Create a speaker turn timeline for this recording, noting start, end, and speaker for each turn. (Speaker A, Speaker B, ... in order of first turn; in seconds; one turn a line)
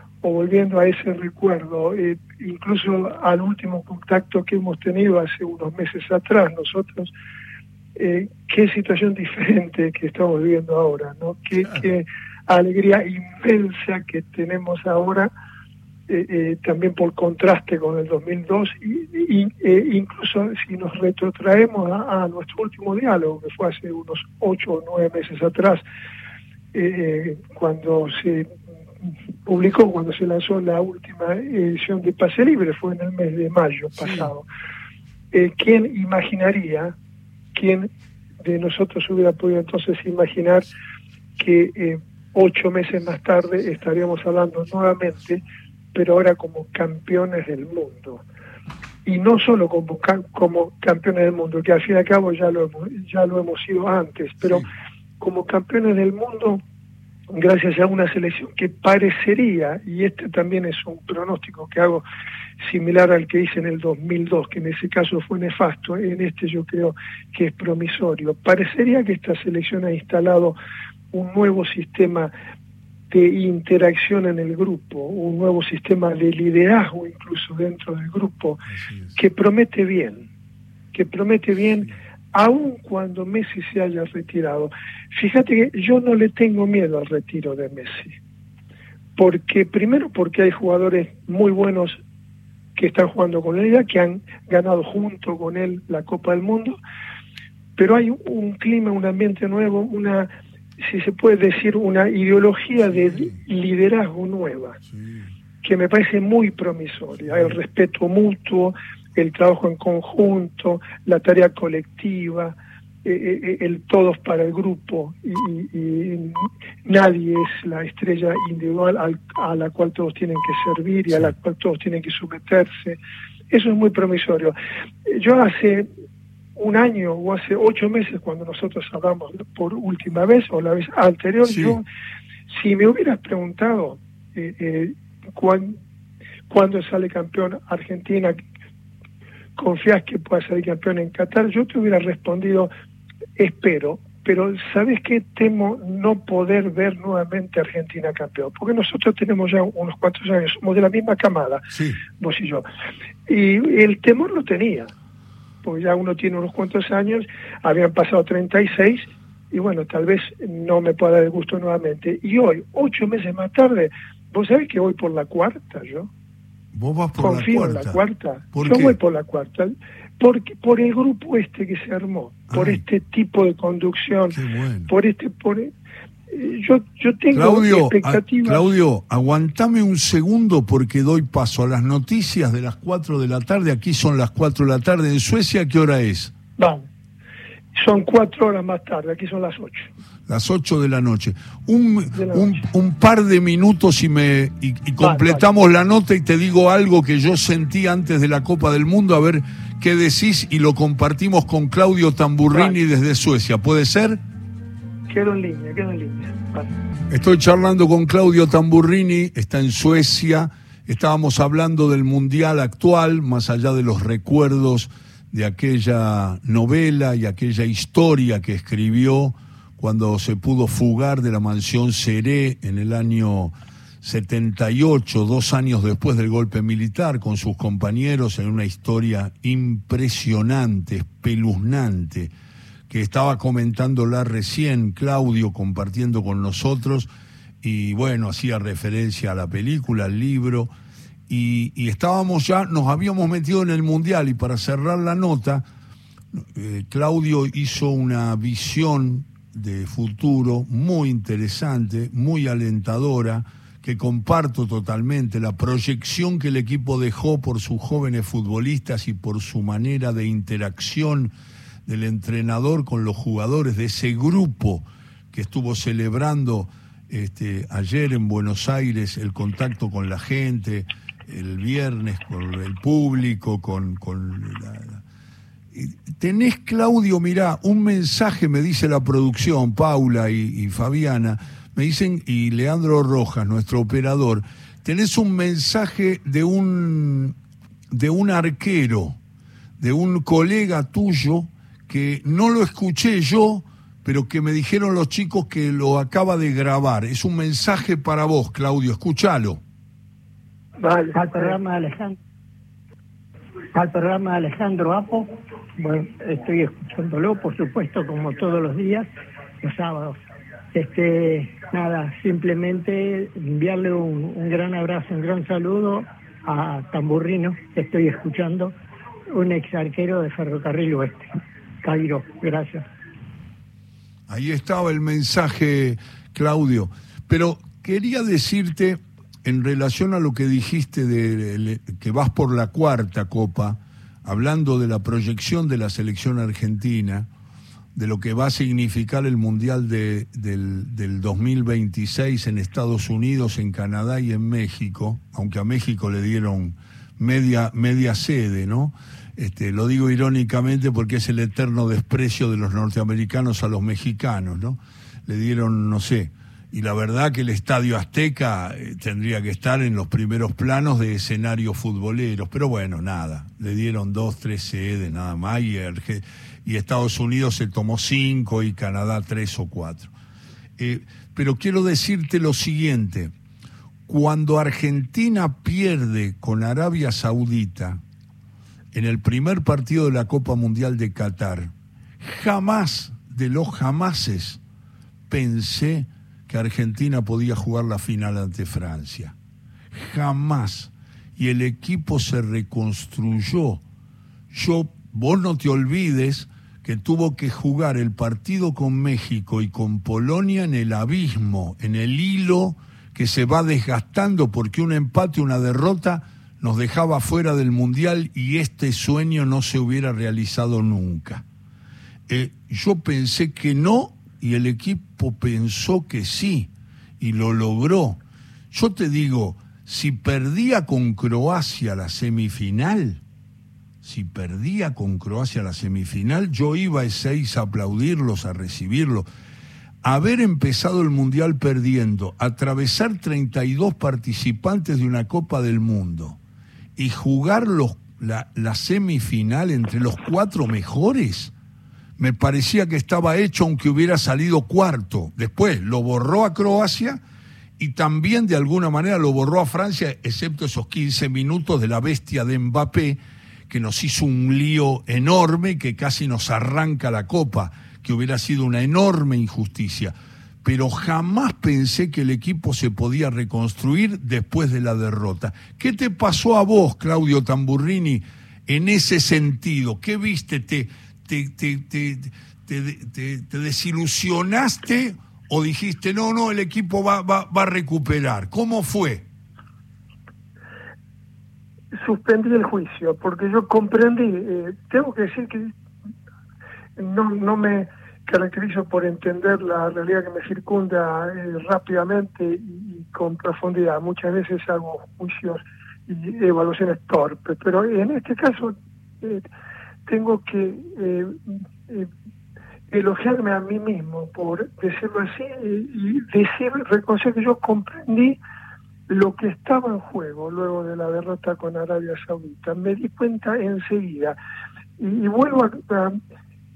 Speaker A: 0.2-7.1
Speaker A: 7.9-15.3
Speaker A: 16.1-25.8
Speaker A: 26.7-34.5
Speaker A: 35.3-37.0
Speaker A: 37.5-37.9
Speaker A: 38.4-40.7
Speaker A: 41.4-45.4
Speaker A: 45.9-48.2
Speaker A: 49.0-54.6
Speaker A: 55.2-56.6
Speaker A: 57.3-62.0
Speaker A: 62.6-70.5
Speaker A: 71.1-72.3
Speaker A: 73.1-78.6
Speaker B: 78.7-79.2
Speaker A: 79.1-80.3
Speaker A: 80.9-88.2
Speaker A: 89.2-92.0
Speaker A: 92.8-96.8
Speaker A: 97.8-104.8
Speaker B: 104.9-105.3
Speaker A: 105.6-123.0
Speaker A: 123.5-125.9
Speaker A: 126.5-131.8
Speaker B: 131.5-131.8
Speaker A: 132.5-135.8
Speaker A: 136.5-138.3
Speaker A: 139.6-142.7
Speaker A: 143.4-152.7
Speaker B: 151.7-152.0
Speaker A: 153.3-154.9
Speaker A: 155.6-166.1
Speaker B: 166.7-168.0
Speaker A: 167.2-174.4
Speaker B: 168.5-169.0
Speaker B: 172.5-172.8
Speaker B: 174.3-174.9
Speaker A: 174.9-175.7
Speaker A: 176.3-178.7
Speaker B: 177.3-186.3
Speaker A: 186.6-186.9
Speaker A: 187.7-189.9
Speaker B: 190.3-204.2
Speaker A: 192.1-192.6
Speaker A: 195.0-195.4
Speaker A: 202.5-202.8
Speaker A: 205.1-206.7
Speaker B: 207.1-232.3
Speaker B: 232.9-237.1
Speaker B: 237.6-240.7
Speaker B: 241.3-245.6
Speaker B: 246.4-261.3
Speaker B: 261.9-275.0
Speaker B: 275.7-287.4
Speaker B: 287.9-289.2
Speaker B: 289.8-299.6
Speaker A: 300.8-301.5
Speaker C: 301.1-302.1
Speaker C: 303.7-309.1
Speaker C: 309.6-310.2
Speaker C: 310.7-318.7
Speaker C: 319.3-321.3
Speaker C: 321.8-322.9
Speaker B: 324.3-337.3
Speaker B: 337.9-370.1
Speaker B: 370.8-373.3
Speaker B: 374.1-378.0
Speaker B: 378.9-384.6
Speaker B: 385.3-389.3
Speaker B: 389.9-393.8
Speaker B: 394.5-411.4
Speaker B: 412.3-423.2
Speaker B: 424.0-429.3
Speaker B: 430.0-436.4
Speaker B: 436.9-441.5
Speaker B: 442.2-447.2
Speaker B: 447.8-479.2
Speaker A: 481.9-485.7
Speaker A: 487.0-499.4
Speaker A: 500.1-502.1
Speaker A: 502.9-508.4
Speaker A: 509.1-514.4
Speaker A: 515.0-516.2